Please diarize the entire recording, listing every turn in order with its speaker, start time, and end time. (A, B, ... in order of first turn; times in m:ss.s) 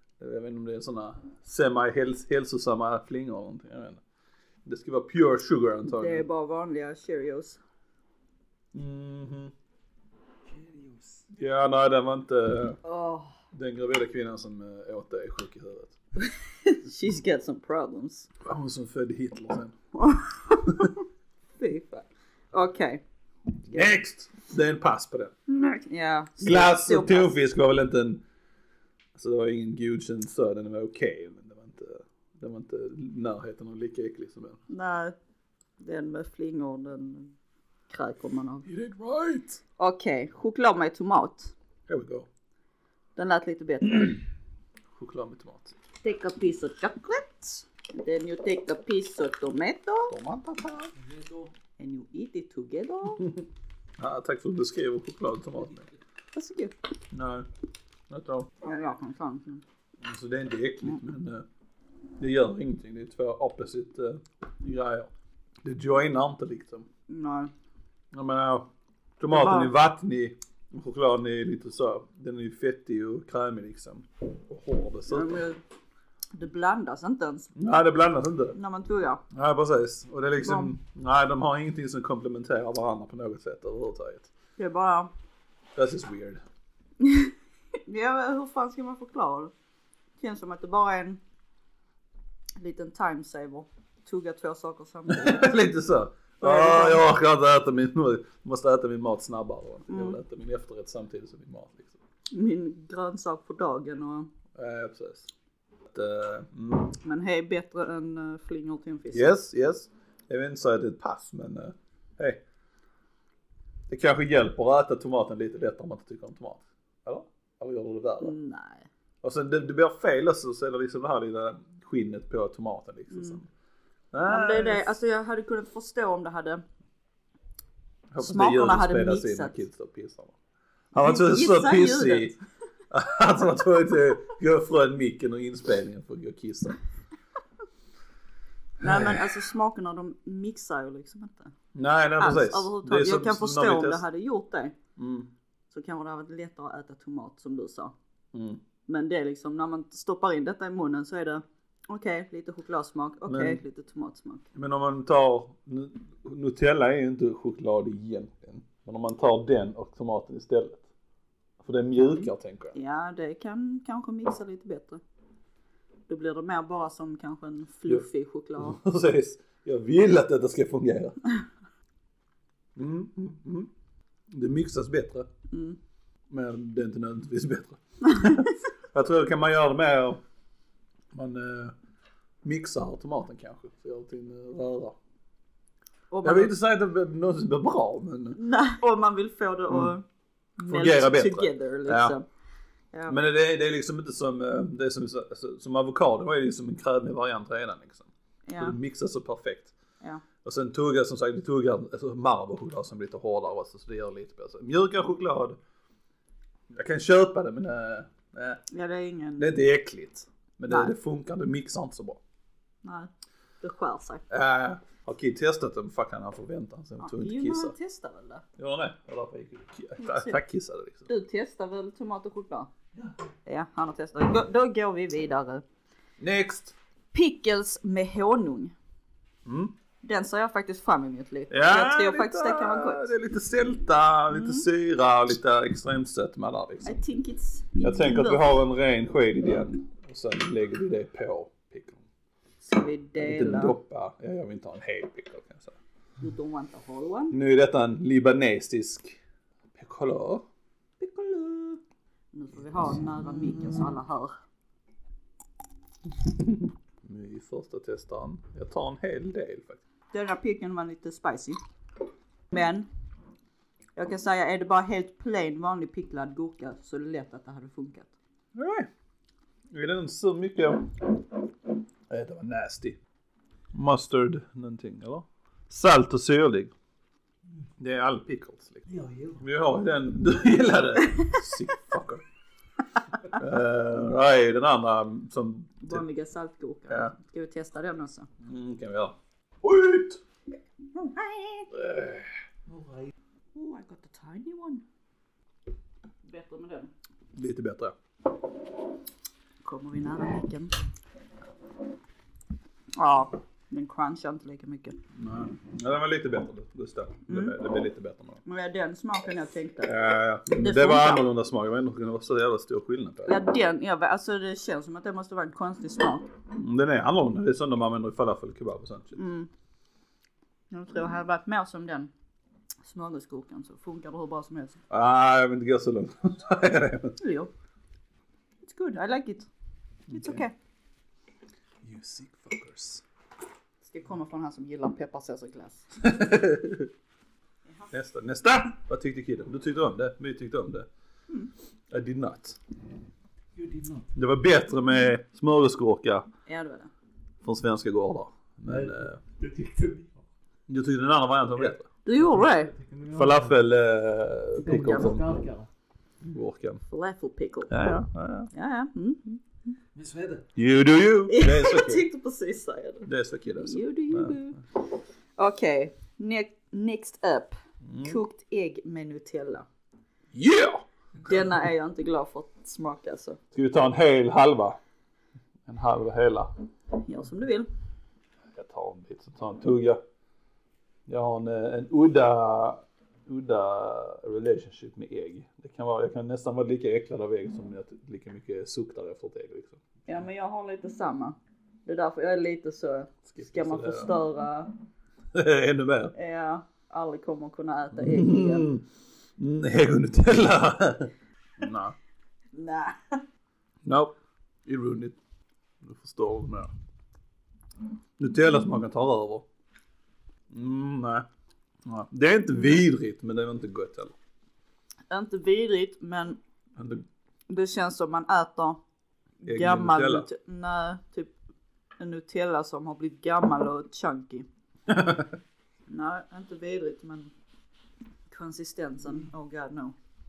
0:00.2-0:04.0 A
0:04.6-0:06.2 A
0:05.9-0:07.6 B
0:08.7-0:09.5 A
0:10.4-0:11.2 C
0:11.3-0:12.8 A
0:12.8-0:13.4 B
0:13.5-0:15.9 A
0:16.2-0:18.3 B
0:18.4-0:19.7 A
0:19.9-0:20.9 B
0:21.6-0:23.0 B
0:23.7-0:23.9 B
0:23.7-0:25.3 A
0:25.5-0:27.4 B
0:26.4-0:28.2 A
0:29.1-0:34.6 A
0:34.7-0:35.1 B
0:35.8-0:37.3 B
0:37.9-0:38.7 B
0:38.6-0:39.6 A
0:39.8-0:41.5 B
0:41.9-0:42.3 A
0:43.2-0:44.2 B
0:45.0-0:45.8 A
0:46.0-0:50.1 B
0:50.1-0:50.9 A
0:51.0-0:51.5 C
0:51.8-0:53.2 B
0:54.0-0:55.9 A
0:56.4-0:56.7 B
0:57.1-0:57.5 A
0:58.1-0:58.5 A
0:58.6-0:59.6 B
1:00.0-1:01.4 A
1:02.2-1:05.1 A
1:05.6-1:06.8 A
1:07.1-1:07.5 B
1:08.1-1:08.7 A
1:09.2-1:15.4 A
1:09.3-1:09.7 B
1:15.1-1:15.6 B
1:16.3-1:17.5 B
1:17.6-1:18.6 A
1:18.5-1:19.2 B
1:19.3-1:24.3 A
1:20.4-1:20.7 B
1:24.6-1:25.1 B
1:25.7-1:26.4 A
1:27.0-1:27.3 B
1:27.8-1:29.5 B
1:30.2-1:31.2 B
1:32.6-1:35.7 B
1:35.1-1:42.0 A
1:36.4-1:37.0 B
1:39.9-1:40.2 B
1:42.3-1:44.3 B
1:44.5-1:45.3 A
1:45.9-1:47.0 A
1:47.0-1:49.4 B
1:49.1-1:52.4 A
1:53.9-1:58.3 A
1:58.2-1:58.9 B
1:59.2-2:03.5 A
2:03.1-2:03.4 B
2:04.1-2:04.9 A
2:04.2-2:06.6 B
2:08.1-2:10.4 A
2:08.2-2:09.6 B
2:10.9-2:12.3 A
2:11.0-2:12.3 B
2:12.9-2:16.8 A
2:18.8-2:21.5 B
2:18.8-2:19.3 A
2:21.7-2:24.0 A
2:22.2-2:24.8 B
2:25.0-2:25.3 A
2:25.7-2:27.9 B
2:28.3-2:28.6 A
2:28.9-2:34.5 B
2:33.3-2:33.6 A
2:34.5-2:40.8 A
2:41.6-2:42.7 A
2:42.0-2:45.0 B
2:46.1-2:48.8 B
2:48.6-2:51.2 A
2:52.8-2:53.7 A
2:54.3-2:55.3 A
2:55.5-2:55.8 B
2:56.3-3:00.2 A
2:58.1-2:58.4 B
3:01.1-3:01.7 A
3:02.4-3:05.0 A
3:06.1-3:06.5 B
3:06.2-3:08.4 A
3:08.3-3:10.0 B
3:10.6-3:12.2 B
3:10.7-3:12.2 A
3:13.1-3:19.7 A
3:18.4-3:18.8 B
3:20.4-3:25.6 A
3:26.7-3:28.6 A
3:28.7-3:29.6 B
3:29.4-3:32.2 A
3:30.7-3:30.9 B
3:32.8-3:33.1 B
3:33.6-3:34.2 B
3:34.3-3:37.7 A
3:37.0-3:38.4 B
3:38.6-3:41.1 A
3:40.0-3:40.4 B
3:41.1-3:42.7 B
3:43.4-3:45.6 B
3:46.2-3:46.7 A
3:47.1-3:48.7 B
3:49.4-3:49.7 A
3:50.0-3:53.1 B
3:51.5-3:57.0 A
3:54.3-3:54.6 B
3:56.8-3:58.6 B
3:57.8-4:02.0 A
4:02.6-4:03.8 B
4:03.2-4:05.8 A
4:06.2-4:07.4 B
4:07.3-4:09.2 A
4:09.7-4:10.4 A
4:11.0-4:11.8 B
4:12.3-4:14.3 B
4:16.1-4:19.8 A
4:20.1-4:21.6 B
4:22.5-4:22.9 B
4:24.0-4:28.1 B
4:28.5-4:28.9 A
4:29.7-4:31.1 A
4:32.1-4:33.0 A
4:33.7-4:36.7 A
4:37.8-4:38.8 A
4:38.9-4:39.4 C
4:39.4-4:42.2 A
4:43.3-4:46.0 A
4:45.8-4:48.3 B
4:48.4-4:50.2 A
4:50.9-4:51.7 B
4:51.7-4:52.3 A
4:52.7-4:53.1 C
4:53.5-4:54.8 B
4:56.2-4:56.9 B
4:57.3-4:57.9 A
4:59.6-5:00.7 B
5:03.0-5:05.0 B
5:05.2-5:08.4 A
5:07.3-5:07.5 B
5:08.4-5:09.9 B
5:09.8-5:13.4 A
5:10.6-5:11.2 B
5:13.2-5:16.3 B
5:16.5-5:19.2 A
5:19.1-5:19.5 B
5:20.7-5:22.1 B
5:22.8-5:24.8 B
5:24.9-5:27.2 A
5:27.2-5:27.5 B
5:28.6-5:29.5 B
5:30.1-5:30.4 A
5:30.1-5:30.5 B
5:31.8-5:33.0 A
5:33.8-5:35.9 B
5:36.0-5:36.9 A
5:37.6-5:37.9 B
5:37.9-5:40.9 A
5:41.9-5:42.6 A
5:43.5-5:44.1 C
5:44.1-5:46.2 A
5:46.4-5:46.9 B
5:47.4-5:49.2 A
5:48.6-5:50.2 C
5:50.7-5:51.8 A
5:51.6-5:53.6 C
5:52.0-5:52.7 B
5:53.1-5:55.3 A
5:54.6-5:55.7 C
5:54.8-5:55.1 B
5:56.2-5:56.8 A
5:56.9-5:57.7 B
5:57.7-5:58.5 A
5:58.5-5:59.7 B
5:59.9-6:00.4 C
6:00.6-6:02.0 A
6:01.3-6:09.7 B
6:03.0-6:04.4 A
6:07.8-6:08.2 A
6:10.3-6:11.4 A
6:11.2-6:13.4 B
6:13.5-6:14.8 A
6:15.6-6:16.5 A
6:16.9-6:17.7 B
6:18.5-6:20.0 A
6:21.1-6:29.8 A
6:30.0-6:34.7 B
6:33.3-6:34.1 A
6:35.3-6:36.1 A
6:36.1-6:38.7 B
6:38.0-6:38.8 A
6:39.4-6:41.9 A
6:42.5-6:43.2 B
6:43.8-6:44.1 A
6:44.6-6:45.2 A
6:45.8-6:46.7 A
6:48.2-6:49.4 A
6:50.5-6:51.2 A
6:51.8-6:54.1 A
6:55.1-6:56.4 B
6:56.8-6:57.0 A
6:57.5-6:58.8 B
6:59.4-7:01.3 B
6:59.4-7:00.3 A
7:02.0-7:04.5 B
7:04.9-7:05.3 A
7:05.9-7:07.3 B
7:08.3-7:09.9 B